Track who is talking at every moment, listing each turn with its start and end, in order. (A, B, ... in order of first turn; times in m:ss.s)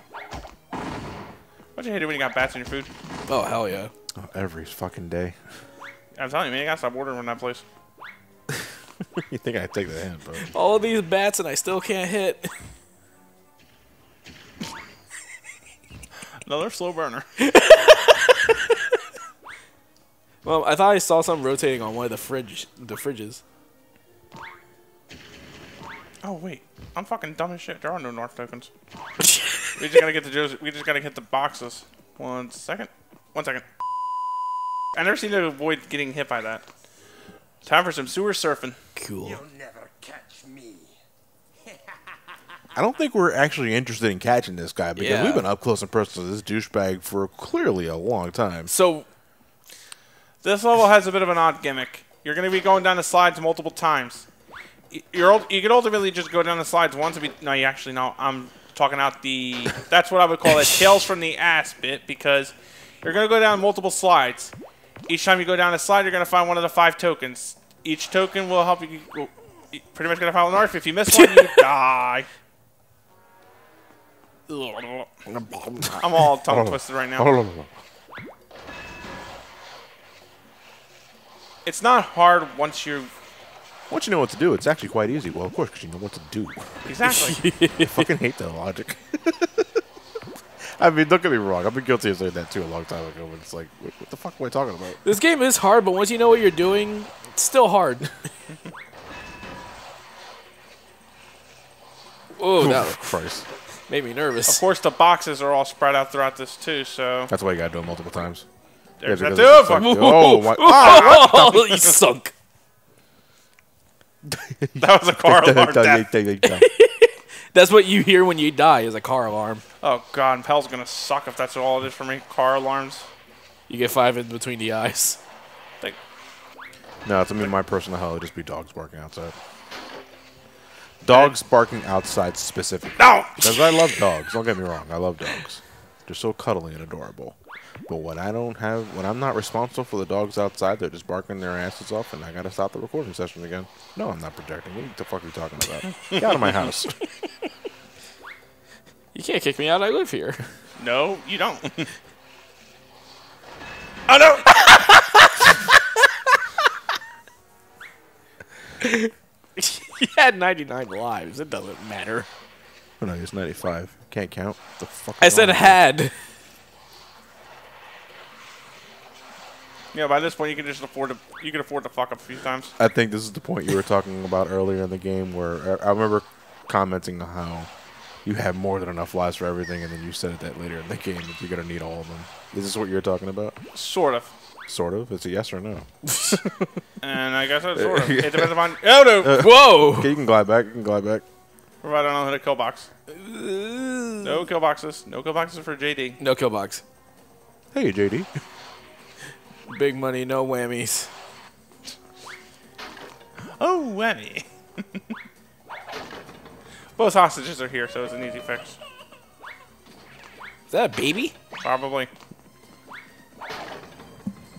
0:01.8-0:02.9 A
0:03.3-0:03.9 B
0:04.2-0:05.4 C
0:06.2-0:07.6 A
0:09.1-0:10.5 C
0:10.5-0:12.5 B
0:16.4-0:17.2 A
0:17.5-0:18.5 B
0:20.4-0:23.4 B
0:26.2-0:28.7 A
0:29.8-0:33.6 A
0:35.0-0:36.6 A
0:37.6-0:38.8 A
0:39.0-0:39.4 B
0:42.8-0:48.7 C
0:45.0-0:45.4 B
0:48.7-0:49.1 B
0:50.4-0:54.3 A
0:54.9-1:04.5 A
1:05.1-1:12.3 A
1:11.1-1:11.6 B
1:14.5-1:15.1 A
1:15.4-1:17.7 C
1:16.0-1:17.4 A
1:21.6-1:23.1 A
1:23.9-1:26.7 C
1:26.8-1:27.4 A
1:27.0-1:28.1 B
1:27.8-1:29.7 C
1:30.6-1:35.0 C
1:35.0-1:38.1 B
1:42.4-1:43.1 B
1:42.6-1:43.5 C
1:43.9-1:44.6 B
1:44.5-1:47.3 A
1:47.3-1:48.4 C
1:49.0-1:50.0 A
1:49.0-1:51.3 C
1:49.7-1:52.3 B
1:50.7-1:51.9 A
1:54.2-1:56.7 C
1:54.8-1:56.1 A
1:56.4-1:59.6 B
1:59.8-2:03.1 A
2:03.7-2:05.2 B
2:07.0-2:09.3 C
2:11.0-2:26.9 C
2:11.1-2:11.3 A
2:13.0-2:14.0 A
2:29.1-2:30.4 B
2:30.8-2:31.9 A
2:34.1-2:34.6 A
2:34.7-2:35.6 B
2:38.8-2:42.3 B
2:43.0-2:45.8 C
2:45.2-2:46.1 B
2:49.9-2:52.7 A
2:52.8-2:57.7 C
2:58.2-3:03.6 C
3:03.7-3:04.3 A
3:04.7-3:06.7 C
3:07.0-3:09.4 A
3:07.8-3:08.6 C
3:09.2-3:11.2 C
3:09.4-3:10.2 B
3:11.8-3:12.9 A
3:13.1-3:14.4 B
3:14.2-3:16.2 A
3:16.2-3:16.8 B
3:17.7-3:18.3 C
3:19.7-3:21.1 B
3:23.6-3:25.0 A
3:27.0-3:28.8 A
3:30.7-3:31.4 B
3:31.6-3:32.1 A